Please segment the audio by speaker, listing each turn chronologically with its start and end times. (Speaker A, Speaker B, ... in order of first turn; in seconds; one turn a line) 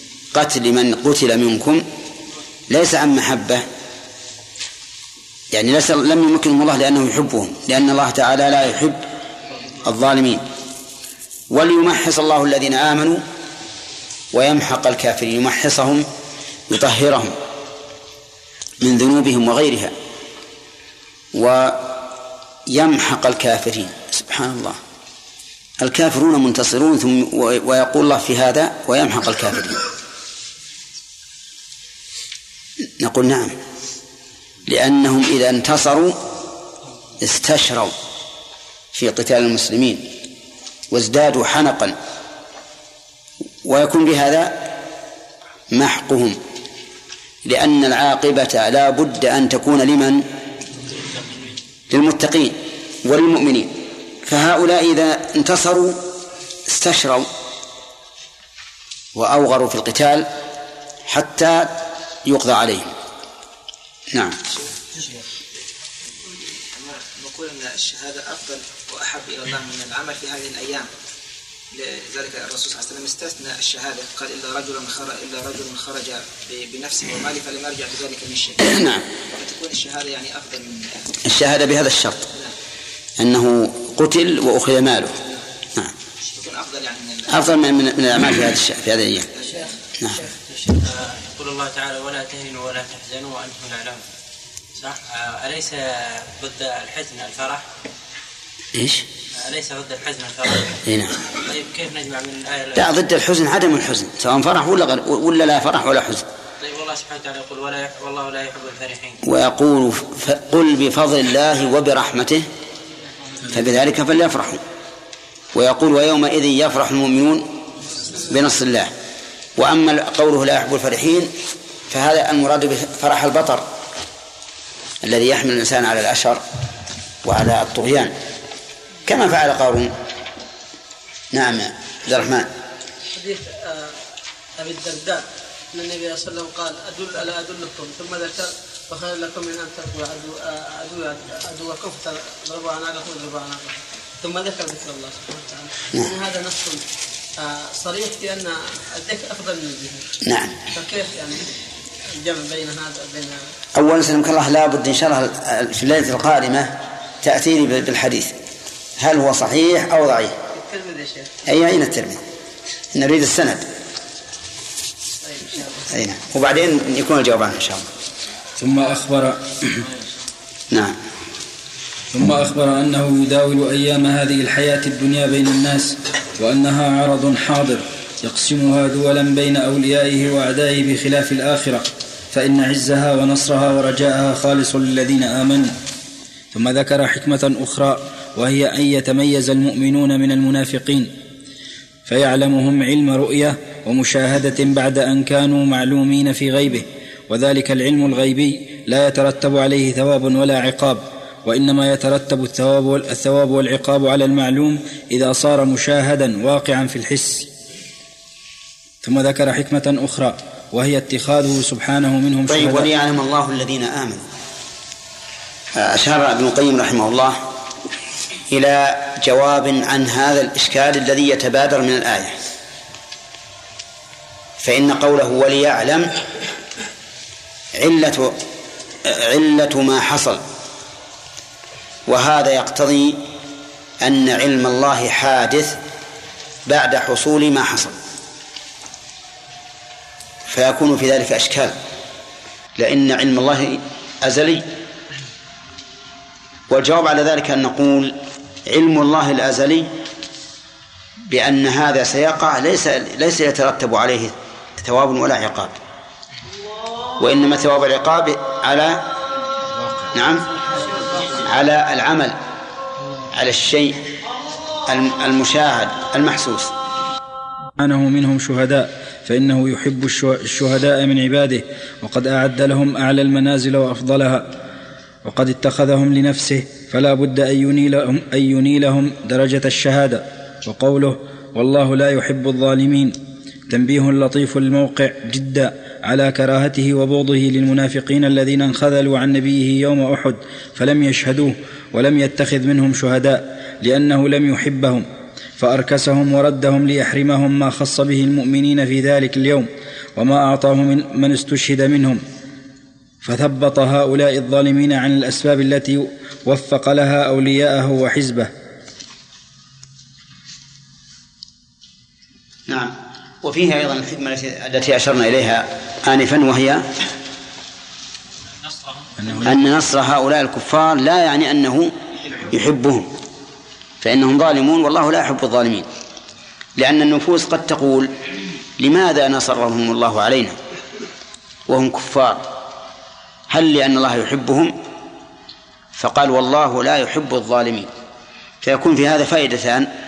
Speaker A: 0.3-1.8
Speaker A: 2.7-3.6
Speaker A: 5.5-9.0
Speaker A: 9.8-10.4
Speaker A: 11.5-13.2
Speaker A: 14.3-16.1
Speaker A: 16.7-17.4
Speaker A: 18.8-19.9
Speaker A: 21.3-21.9
Speaker A: 22.7-24.8
Speaker A: 25.8-29.8
Speaker A: 33.0-33.6
Speaker A: 34.7-36.2
Speaker A: 37.2-37.9
Speaker A: 38.9-40.1
Speaker A: 40.9-42.0
Speaker A: 43.6-44.6
Speaker A: 45.7-46.4
Speaker A: 47.5-50.2
Speaker A: 51.9-53.8
Speaker A: 54.3-56.0
Speaker A: 56.7-57.3
Speaker A: 59.1-60.3
Speaker A: 61.1-62.9
Speaker A: 64.1-64.4
Speaker B: 64.5-65.1
Speaker B: 66.6-70.9
Speaker B: 71.7-81.0
Speaker A: 78.6-79.1
Speaker A: 81.2-82.3
Speaker A: 83.2-85.2
Speaker B: 86.3-87.6
Speaker A: 87.3-89.3
Speaker C: 90.5-94.0
Speaker C: 94.8-97.6
Speaker A: 98.7-99.0
Speaker C: 99.3-100.8
Speaker A: 100.8-101.2
Speaker C: 101.3-102.9
Speaker A: 102.8-106.3
Speaker C: 106.6-109.2
Speaker A: 109.2-112.5
Speaker A: 113.5-114.6
Speaker A: 115.5-117.5
Speaker A: 118.3-118.9
Speaker A: 119.6-121.3
Speaker A: 121.9-123.7
Speaker A: 125.0-126.4
Speaker A: 127.2-128.2
Speaker A: 129.1-129.9
Speaker A: 131.3-132.5
Speaker D: 133.1-134.0
Speaker D: 134.6-146.8
Speaker D: 147.4-150.1
Speaker A: 150.2-150.6
Speaker D: 150.7-151.5
Speaker D: 152.1-153.5
Speaker A: 153.8-158.3
Speaker A: 159.0-160.3
Speaker D: 160.5-161.3
Speaker A: 161.5-162.2
Speaker A: 162.9-163.7
Speaker D: 165.2-165.9
Speaker A: 165.9-167.9
Speaker E: 168.6-169.8
Speaker A: 170.7-171.0
Speaker E: 172.1-185.7
Speaker E: 186.5-191.1
Speaker E: 192.1-207.5
Speaker E: 209.0-212.9
Speaker A: 212.5-214.3
Speaker A: 215.8-217.4
Speaker A: 218.5-222.4
Speaker A: 224.6-226.1
Speaker A: 227.8-228.4
Speaker A: 229.0-230.4
Speaker A: 232.1-233.2
Speaker A: 234.0-235.8
Speaker A: 236.7-238.0
Speaker A: 240.5-241.8
Speaker A: 242.8-244.7
Speaker A: 246.7-249.9
Speaker A: 251.3-255.8
Speaker A: 257.2-259.1
Speaker A: 260.1-260.5
Speaker A: 261.4-262.4
Speaker A: 263.3-264.0
Speaker A: 264.9-266.7
Speaker E: 267.8-274.5
Speaker E: 275.2-283.2
Speaker E: 283.7-295.1
Speaker E: 295.6-302.2
Speaker E: 303.2-308.5
Speaker A: 312.7-316.9
Speaker E: 319.2-319.6
Speaker A: 319.4-323.1
Speaker A: 324.0-325.9
Speaker A: 326.8-328.1
Speaker A: 328.8-330.6
Speaker A: 331.7-332.5
Speaker A: 333.5-334.8
Speaker A: 335.9-337.9
Speaker A: 338.6-339.9